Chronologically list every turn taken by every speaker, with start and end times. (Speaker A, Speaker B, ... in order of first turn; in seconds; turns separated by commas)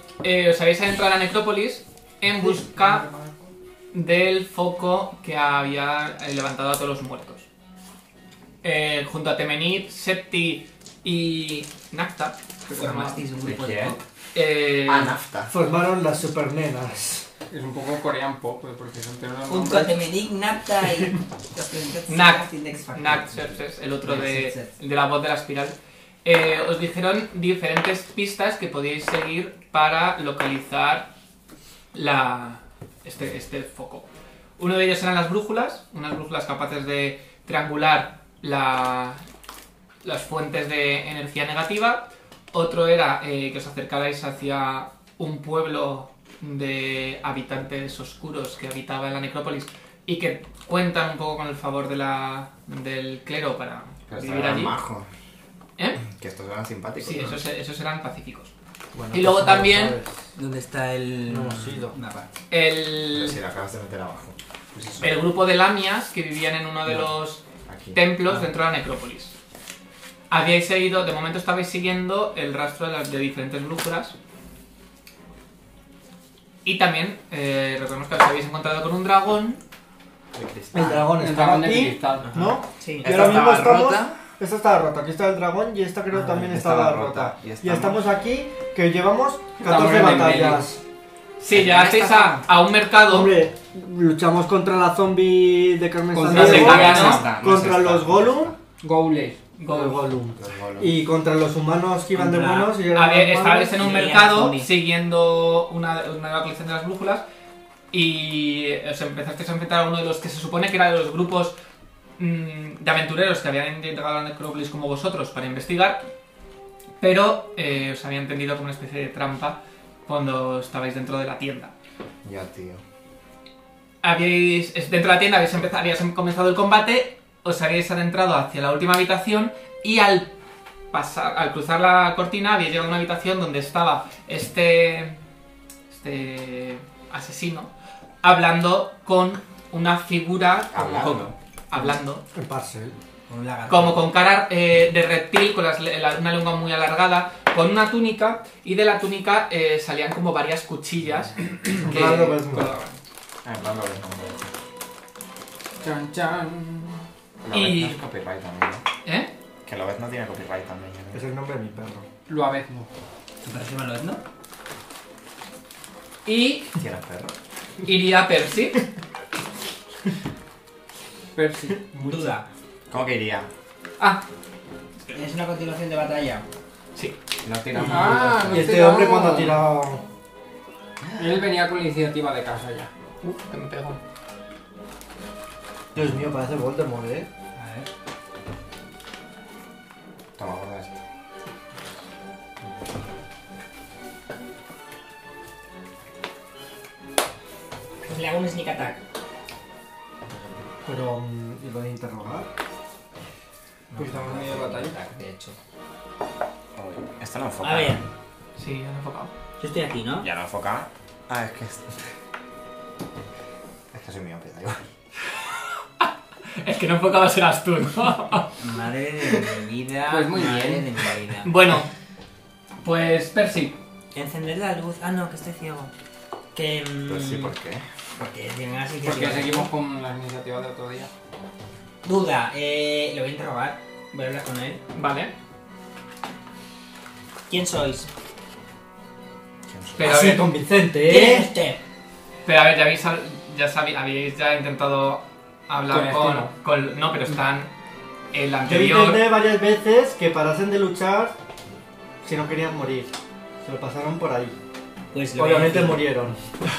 Speaker A: 0.2-3.0, Speaker B: 2.5-3.3, Speaker A: 3.9-7.5, Speaker A: 8.6-13.2, Speaker C: 12.7-14.0, Speaker D: 13.4-14.0, Speaker A: 14.3-15.2, Speaker D: 14.8-15.5, Speaker E: 15.5-17.3, Speaker B: 17.5-20.0, Speaker C: 19.5-24.7, Speaker A: 22.1-31.1, Speaker A: 31.9-34.1, Speaker A: 34.6-39.2, Speaker A: 40.0-54.8, Speaker D: 54.1-55.1, Speaker A: 55.8-56.0, Speaker D: 56.0-57.4, Speaker A: 57.0-58.5, Speaker E: 58.9-60.3, Speaker A: 59.1-60.0, Speaker C: 60.3-62.3, Speaker E: 61.3-61.9, Speaker A: 62.5-63.4, Speaker D: 63.1-64.3, Speaker C: 64.7-65.2, Speaker A: 65.0-69.3, Speaker D: 67.7-68.0, Speaker A: 70.3-74.2, Speaker A: 76.6-79.6, Speaker D: 80.3-81.1, Speaker E: 80.7-90.8, Speaker B: 81.0-82.5, Speaker C: 82.2-83.3, Speaker D: 83.0-84.2, Speaker D: 86.1-88.0, Speaker B: 89.6-90.7, Speaker A: 91.4-93.4, Speaker C: 91.5-92.4, Speaker D: 91.5-91.9, Speaker E: 93.0-98.5, Speaker B: 96.1-97.3, Speaker A: 96.3-97.2, Speaker D: 96.6-98.6, Speaker B: 98.8-99.4, Speaker A: 99.6-100.0, Speaker E: 99.7-103.8, Speaker D: 100.4-101.0, Speaker C: 102.1-102.8, Speaker A: 102.9-107.2, Speaker C: 103.8-104.7, Speaker A: 107.9-111.5, Speaker A: 112.2-116.1, Speaker A: 117.0-121.7, Speaker D: 122.2-122.8, Speaker A: 124.0-130.3, Speaker A: 130.9-135.2, Speaker A: 135.9-137.7, Speaker A: 138.2-142.2, Speaker D: 140.7-141.3, Speaker E: 142.3-143.0, Speaker C: 143.3-144.0, Speaker A: 143.7-152.9, Speaker E: 151.8-152.7, Speaker D: 153.4-154.5, Speaker B: 155.8-157.0, Speaker D: 157.4-158.8, Speaker A: 157.5-158.0, Speaker A: 159.0-159.3, Speaker D: 159.6-161.2, Speaker E: 161.1-162.1, Speaker B: 162.3-162.9, Speaker C: 163.4-164.2, Speaker A: 166.2-166.7, Speaker D: 166.8-167.3, Speaker A: 167.8-168.8, Speaker B: 171.3-171.8, Speaker E: 171.9-172.3, Speaker C: 172.0-172.4, Speaker D: 172.9-173.5, Speaker A: 174.0-174.2, Speaker C: 175.1-176.4, Speaker D: 177.4-178.8, Speaker E: 177.8-180.0, Speaker B: 177.9-179.7, Speaker D: 181.0-181.4, Speaker B: 181.1-182.9, Speaker A: 183.2-184.0, Speaker E: 185.9-187.3, Speaker C: 187.6-187.9, Speaker D: 190.4-191.0, Speaker C: 198.1-199.0, Speaker E: 200.8-202.5, Speaker C: 203.9-205.6, Speaker B: 203.9-205.0, Speaker D: 206.7-208.0, Speaker C: 207.6-208.1, Speaker A: 208.6-209.3, Speaker C: 209.6-210.3, Speaker D: 210.2-212.1, Speaker D: 213.9-214.8, Speaker A: 215.3-218.5, Speaker C: 218.6-221.5, Speaker B: 220.1-220.9, Speaker A: 221.4-221.9, Speaker A: 222.8-223.8, Speaker C: 224.1-225.9, Speaker C: 226.5-227.5, Speaker D: 227.1-227.9, Speaker C: 228.2-229.7, Speaker B: 229.0-231.1, Speaker C: 232.0-234.8, Speaker A: 234.9-235.3, Speaker C: 237.5-238.1, Speaker D: 239.7-240.2, Speaker A: 240.0-240.5, Speaker E: 240.0-241.5, Speaker C: 241.0-241.8, Speaker A: 242.4-247.7, Speaker B: 245.9-246.5, Speaker A: 248.3-249.3, Speaker E: 248.6-251.3, Speaker E: 252.2-253.1, Speaker E: 253.6-254.6, Speaker C: 255.1-256.2, Speaker E: 255.3-256.4